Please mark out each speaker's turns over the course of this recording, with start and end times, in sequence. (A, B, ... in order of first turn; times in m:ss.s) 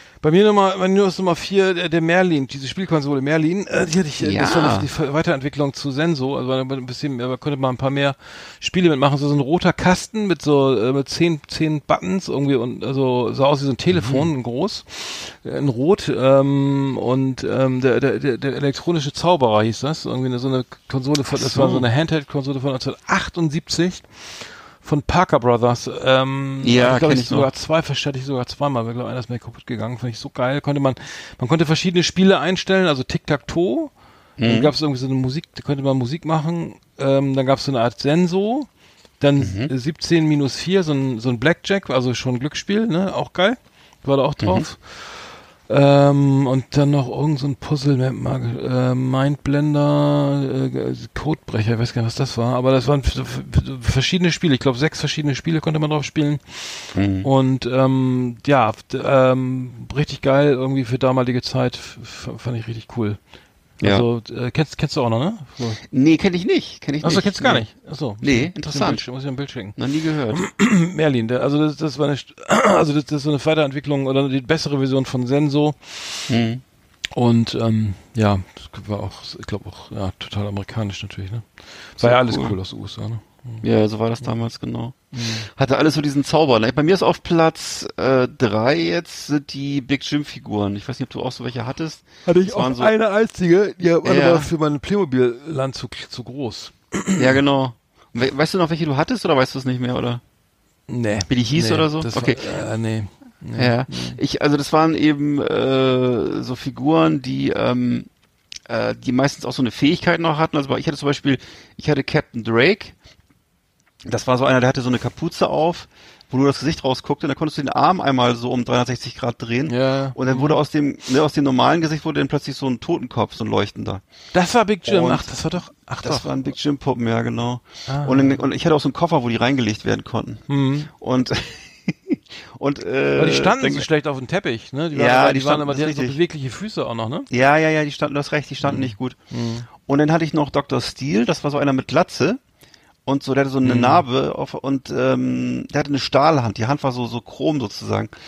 0:00.2-0:38.7 A
0:04.2-0:04.9 B
0:13.9-0:14.3 B
0:21.3-0:21.9 B
0:26.6-0:27.5 B
0:34.4-0:34.7 B
0:39.2-1:03.2 A
0:39.4-0:39.7 B
0:44.4-0:44.7 B
0:56.9-0:57.3 B
1:03.8-1:05.8 A
1:05.9-1:07.7 B
1:07.0-1:09.8 A
1:08.2-1:09.0 B
1:09.8-1:10.4 B
1:10.3-1:16.3 A
1:16.3-1:16.6 B
1:17.2-1:23.6 A
1:22.0-1:22.6 B
1:23.6-1:32.9 B
1:25.1-1:25.5 A
1:32.2-1:37.3 A
1:34.0-1:34.5 B
1:37.2-1:40.2 B
1:40.9-1:44.2 A
1:41.3-1:42.6 B
1:43.6-1:48.1 B
1:48.7-1:53.0 B
1:54.0-2:04.0 B
1:59.7-2:00.6 A
2:04.3-2:06.3 A
2:04.8-2:05.3 B
2:06.0-2:13.9 B
2:07.9-2:08.4 A
2:10.5-2:10.9 A
2:13.2-2:17.3 A
2:14.9-2:16.2 B
2:17.3-2:19.2 B
2:18.6-2:19.7 A
2:19.7-2:22.4 B
2:23.0-2:28.1 B
2:23.6-2:24.0 A